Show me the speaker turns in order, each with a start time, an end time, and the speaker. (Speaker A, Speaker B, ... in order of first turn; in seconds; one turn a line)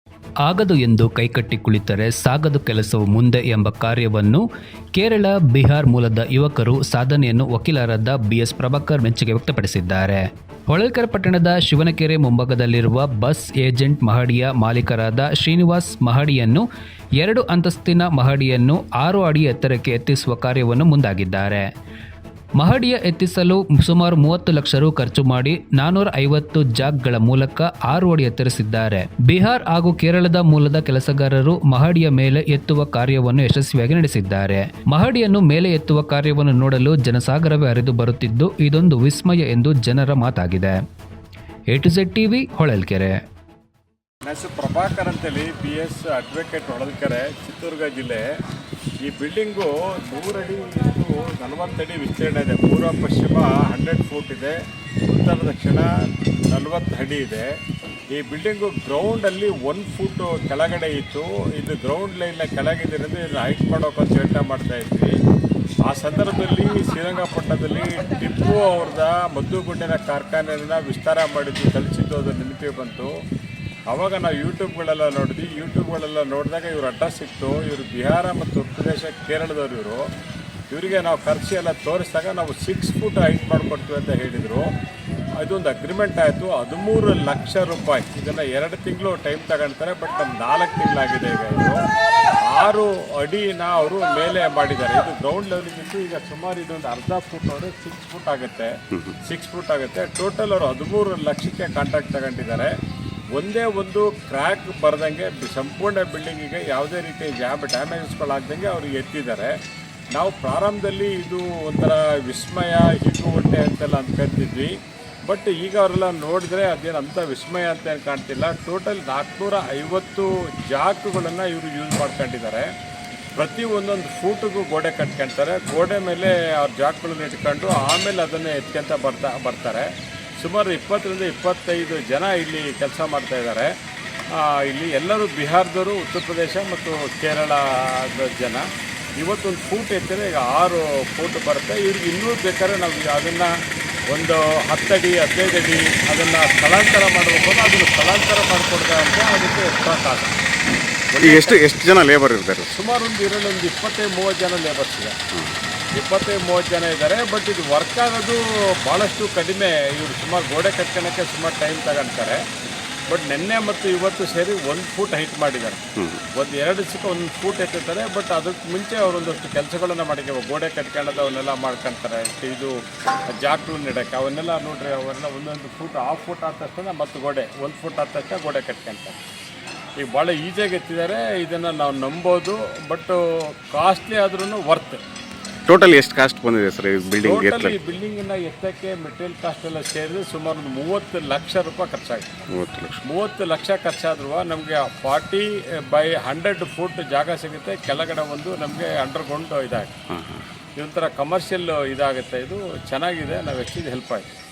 Speaker A: 0.4-4.4
Speaker A: 5.0-16.6
Speaker A: 17.2-21.6
Speaker A: 22.6-40.7
Speaker A: 41.7-43.1
Speaker B: 44.2-48.2
Speaker B: 49.1-54.5
Speaker B: 55.1-55.9
Speaker B: 56.5-57.5
Speaker B: 58.1-65.1
Speaker B: 65.9-73.1
Speaker B: 73.9-80.0
Speaker B: 80.7-84.7
Speaker B: 85.4-91.8
Speaker B: 92.5-98.7
Speaker B: 99.2-102.7
Speaker B: 103.4-109.5
Speaker B: 110.2-114.7
Speaker B: 115.3-122.7
Speaker B: 123.4-129.9
Speaker B: 130.4-133.7
Speaker B: 134.3-138.6
Speaker B: 139.2-143.5
Speaker B: 144.1-150.3
Speaker B: 151.1-151.7
Speaker C: 151.2-152.7
Speaker B: 152.7-155.2
Speaker B: 155.9-162.4
Speaker B: 163.1-165.8
Speaker B: 166.3-172.7
Speaker B: 173.3-179.2
Speaker B: 180.0-183.2
Speaker B: 183.7-185.0
Speaker C: 185.7-187.8
Speaker B: 187.1-192.4
Speaker C: 192.5-193.0
Speaker B: 193.0-199.9
Speaker C: 200.1-200.4
Speaker B: 200.8-204.3